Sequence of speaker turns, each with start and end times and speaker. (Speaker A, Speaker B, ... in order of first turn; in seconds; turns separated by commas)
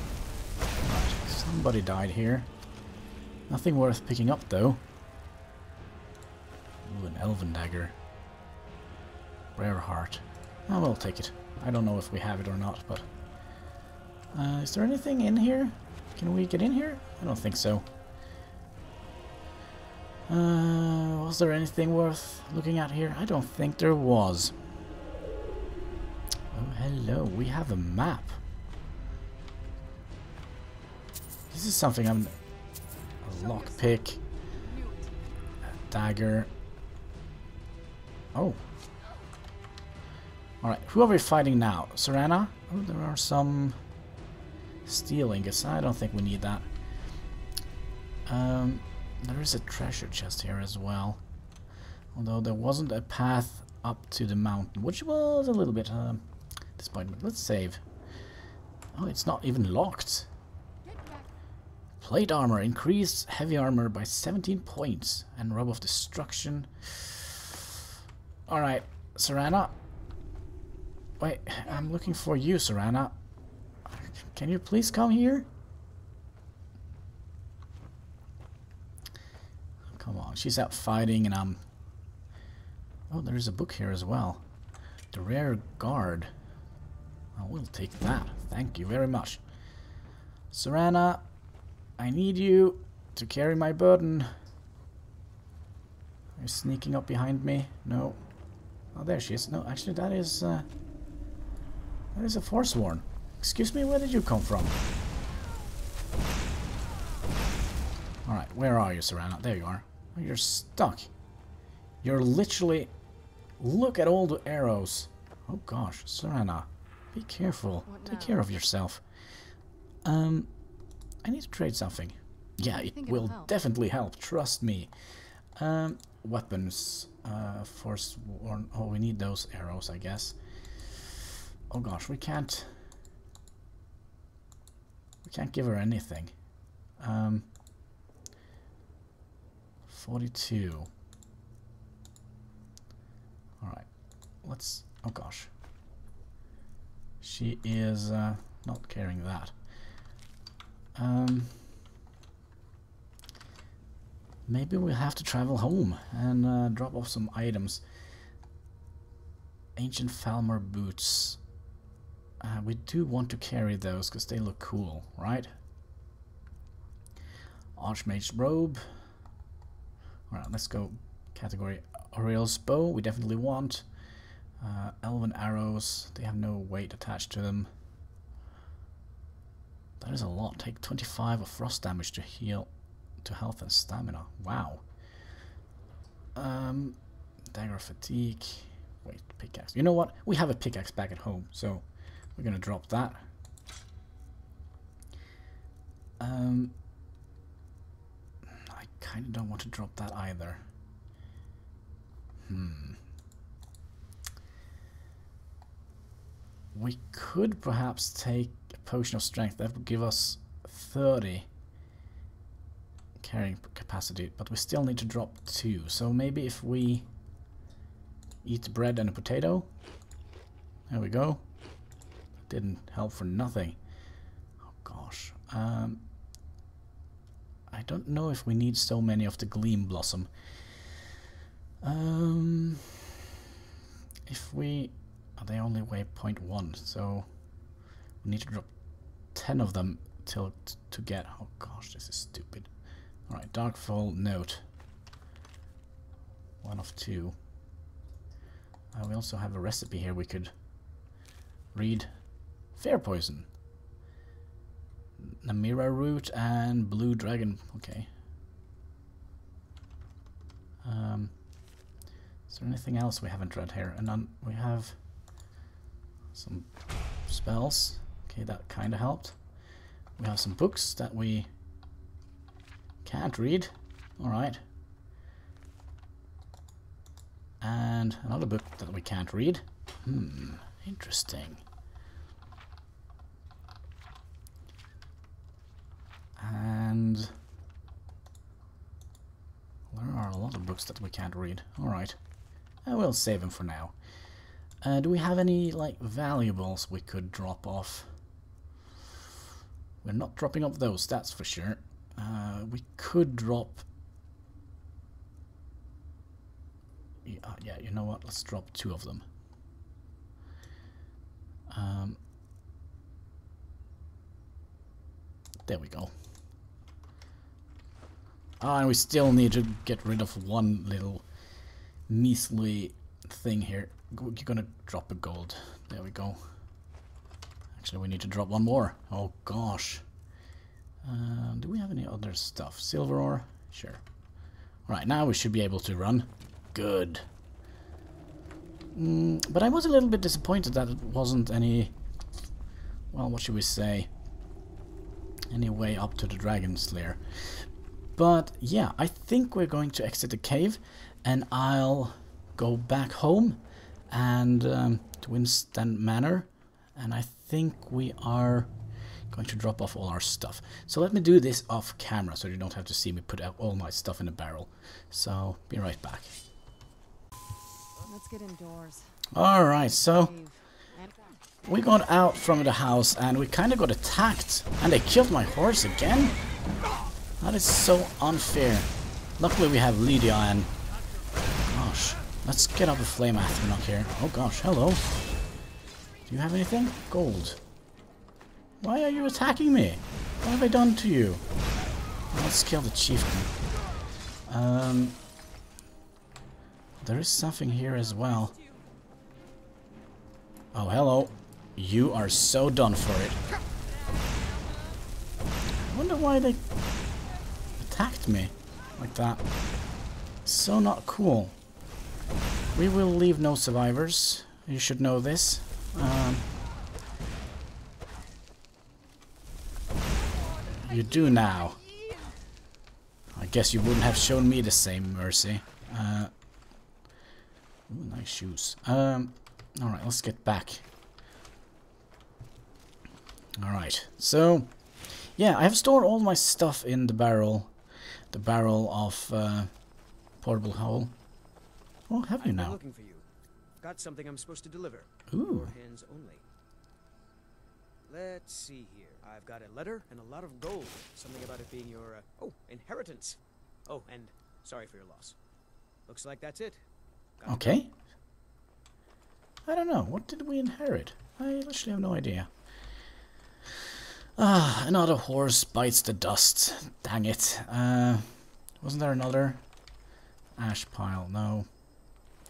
Speaker A: 0.8-2.5, Speaker A: 3.5-4.8, Speaker A: 6.8-8.0, Speaker A: 9.6-13.1, Speaker A: 14.3-17.9, Speaker A: 20.3-24.5, Speaker A: 26.5-28.4, Speaker A: 31.5-32.3, Speaker A: 33.2-34.2, Speaker B: 33.4-33.9, Speaker B: 34.5-35.1, Speaker A: 35.9-36.5, Speaker A: 38.4-38.6, Speaker A: 40.6-43.8, Speaker A: 44.9-46.7, Speaker A: 48.3-51.2, Speaker A: 52.1-56.2, Speaker A: 56.8-57.8, Speaker A: 58.9-60.3, Speaker B: 60.9-61.3, Speaker A: 62.0-67.6, Speaker A: 68.5-69.8, Speaker A: 71.2-73.2, Speaker B: 71.6-72.2, Speaker A: 73.9-75.5, Speaker A: 79.9-81.6, Speaker A: 83.1-84.4, Speaker A: 85.1-86.3, Speaker A: 87.3-89.4, Speaker A: 90.5-91.2, Speaker A: 92.0-94.3, Speaker A: 96.4-98.2, Speaker A: 98.9-100.7, Speaker A: 102.2-104.8, Speaker A: 108.3-111.1, Speaker A: 112.0-112.9, Speaker A: 113.6-119.0, Speaker B: 117.8-118.6, Speaker A: 120.0-120.5, Speaker A: 121.2-124.9, Speaker B: 122.7-123.5, Speaker A: 125.6-130.4, Speaker A: 131.7-132.7, Speaker A: 135.2-136.3, Speaker A: 137.0-137.5, Speaker A: 139.9-140.9, Speaker A: 143.6-143.9, Speaker A: 144.4-145.5, Speaker A: 147.2-149.5, Speaker A: 150.9-151.6, Speaker A: 154.5-157.8, Speaker A: 159.8-161.4, Speaker A: 162.4-165.5, Speaker A: 167.8-168.8, Speaker A: 170.3-173.8, Speaker A: 174.6-177.7, Speaker A: 180.0-182.7, Speaker A: 183.2-184.8, Speaker A: 186.3-187.0, Speaker A: 187.5-191.8, Speaker A: 192.4-193.2, Speaker A: 196.2-196.7, Speaker A: 198.6-200.6, Speaker A: 202.5-203.0, Speaker A: 206.7-211.5, Speaker A: 213.2-217.1, Speaker A: 218.4-219.7, Speaker A: 220.9-221.4, Speaker A: 222.5-223.8, Speaker A: 224.7-226.0, Speaker A: 227.7-230.3, Speaker A: 231.8-233.0, Speaker A: 234.3-237.3, Speaker A: 238.2-238.7, Speaker A: 239.3-242.7, Speaker A: 243.3-244.6, Speaker A: 246.6-247.3, Speaker A: 248.9-250.5, Speaker A: 251.7-252.1, Speaker A: 252.8-253.5, Speaker A: 255.2-258.1, Speaker A: 260.8-261.3, Speaker A: 262.5-265.0, Speaker A: 266.3-266.7, Speaker A: 267.3-269.4, Speaker A: 270.2-271.5, Speaker A: 273.1-274.6, Speaker A: 277.6-281.6, Speaker A: 286.4-287.4, Speaker A: 289.9-292.2, Speaker A: 292.9-293.9, Speaker A: 294.8-298.1, Speaker A: 300.0-303.8, Speaker A: 307.2-309.2, Speaker A: 311.7-312.2, Speaker A: 315.7-316.1, Speaker A: 318.6-321.2, Speaker A: 322.1-326.4, Speaker A: 327.8-330.0, Speaker A: 331.0-334.0, Speaker A: 334.9-337.2, Speaker A: 338.9-341.9, Speaker A: 343.1-344.1, Speaker A: 345.5-358.7, Speaker A: 359.3-366.3, Speaker B: 368.0-371.4, Speaker A: 369.3-370.3, Speaker A: 371.6-376.4, Speaker A: 377.4-380.7, Speaker A: 381.7-385.0, Speaker A: 386.3-387.6, Speaker A: 388.8-391.4, Speaker A: 392.3-393.5, Speaker A: 394.5-395.2, Speaker A: 397.0-398.6, Speaker A: 400.7-403.4, Speaker A: 405.8-406.6, Speaker A: 407.8-409.4, Speaker A: 410.4-411.6, Speaker A: 412.7-416.5, Speaker A: 420.7-421.8, Speaker A: 423.4-426.3, Speaker A: 427.9-430.8, Speaker A: 433.6-437.7, Speaker A: 438.3-439.7, Speaker A: 440.4-441.1, Speaker A: 442.1-442.8, Speaker C: 442.4-443.2, Speaker C: 443.8-446.4, Speaker A: 445.3-445.7, Speaker C: 448.1-455.4, Speaker C: 456.1-456.8, Speaker C: 457.4-457.8, Speaker A: 457.5-457.9, Speaker A: 459.7-462.5, Speaker A: 464.4-469.6, Speaker A: 470.6-471.7